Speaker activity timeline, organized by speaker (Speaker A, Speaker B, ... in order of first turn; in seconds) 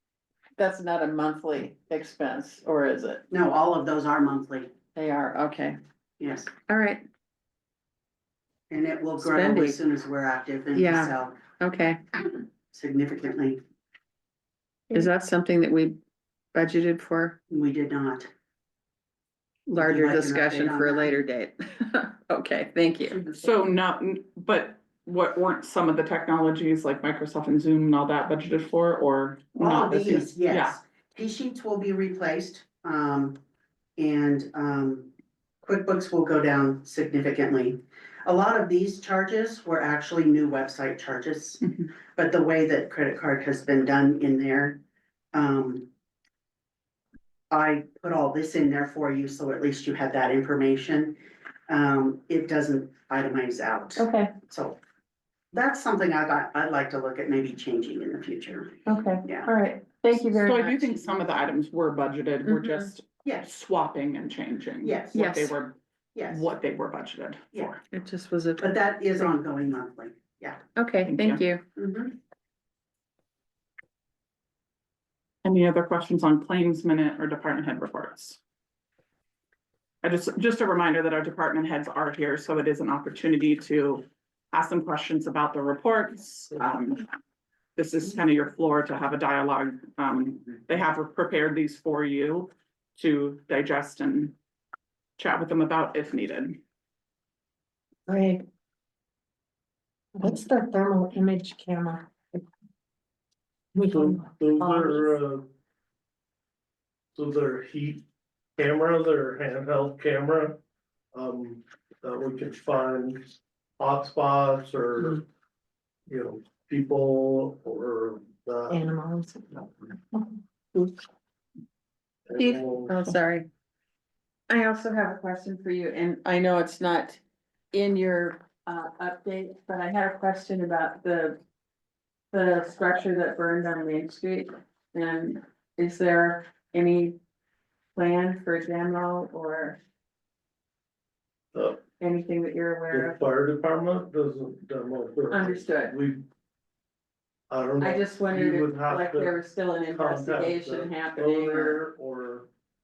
Speaker A: 0.6-3.2, 4.9-5.8, 6.6-7.0, 9.2-9.8, 10.7-12.0, 14.9-16.0, 16.5-17.4, 19.7-23.2, 54.0-54.3, 58.9-61.0, 62.4-62.9, 65.1-65.5, 67.9-69.3, 70.8-71.6, 122.4-123.5, 124.5-127.2, 127.7-131.4, 132.3-137.2, 137.9-139.8, 142.0-143.2, 145.3-146.0, 147.8-151.8
Speaker B: 3.3-4.7, 6.2-6.5, 8.7-11.4, 12.7-13.6, 17.5-18.3, 19.7-21.2, 23.1-23.7, 29.6-33.4, 34.0-35.1, 35.6-44.8, 45.3-45.9, 47.5-54.8, 55.5-59.5, 63.2-63.5, 64.8-65.3, 66.1-66.5, 68.6-70.7, 71.8-72.2
Speaker C: 23.3-30.8, 60.3-67.8, 71.0-71.4, 75.4-78.4, 80.0-87.1, 87.8-94.3, 95.2-96.6
Speaker D: 98.1-98.4, 100.2-102.4, 103.8-105.1, 118.7-120.2
Speaker E: 103.9-105.5, 107.2-108.0, 108.6-110.6, 111.1-115.2, 116.1-118.9, 122.2-123.1, 141.5-141.8, 142.9-146.2, 147.5-149.3, 149.9-152.5